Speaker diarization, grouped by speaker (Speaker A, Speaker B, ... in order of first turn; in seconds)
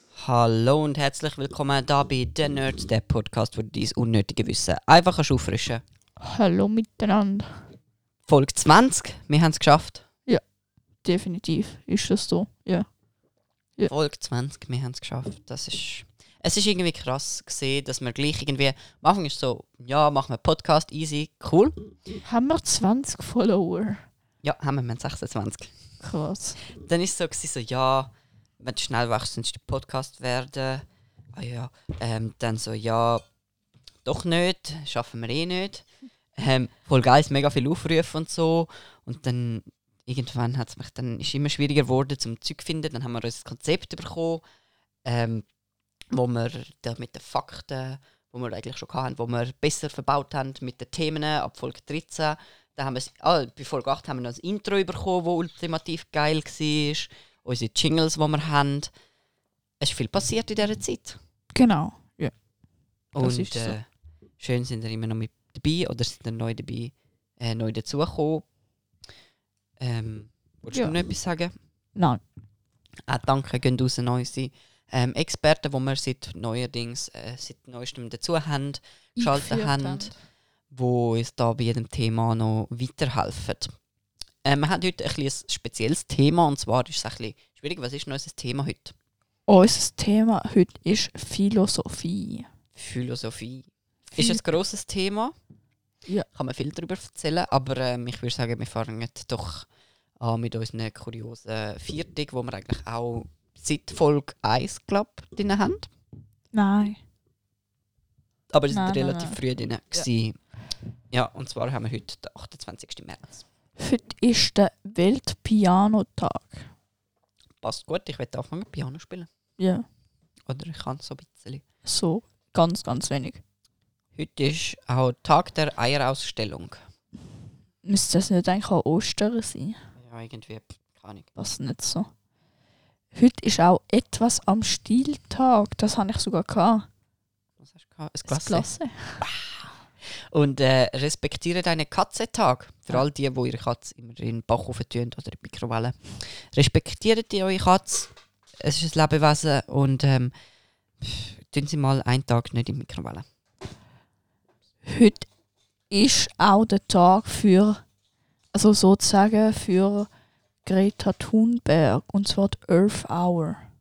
Speaker A: 0.2-5.8, 8.3-10.0, 13.9-21.8, 24.4-25.7, 26.8-33.2, 34.0-44.4, 45.0-45.5, 46.1-58.9, 59.8-61.2, 63.1-63.9, 64.4-68.5, 69.8-71.5, 73.1-80.1, 80.7-83.7, 84.5-88.9, 92.8-95.3, 96.3-99.7, 100.2-105.9, 108.5-110.4, 111.1-113.4, 117.6-119.3, 120.5-121.6, 124.2-126.8, 130.0-131.3, 137.6-138.7, 139.2-139.7, 140.3-150.3, 151.0-153.2
Speaker B: 6.2-7.5, 11.0-12.9, 22.2-24.1, 26.0-26.6, 61.5-62.3, 63.2-63.8, 72.0-72.2, 79.2-80.1, 89.5-92.5, 94.1-94.4, 106.5-107.0, 108.7-109.4, 113.8-116.7, 119.6-119.9, 121.8-123.4, 127.8-129.8, 131.4-132.1, 133.1-136.9, 138.3-139.2, 154.8-155.3, 155.9-157.8, 158.5-160.1, 160.6-163.7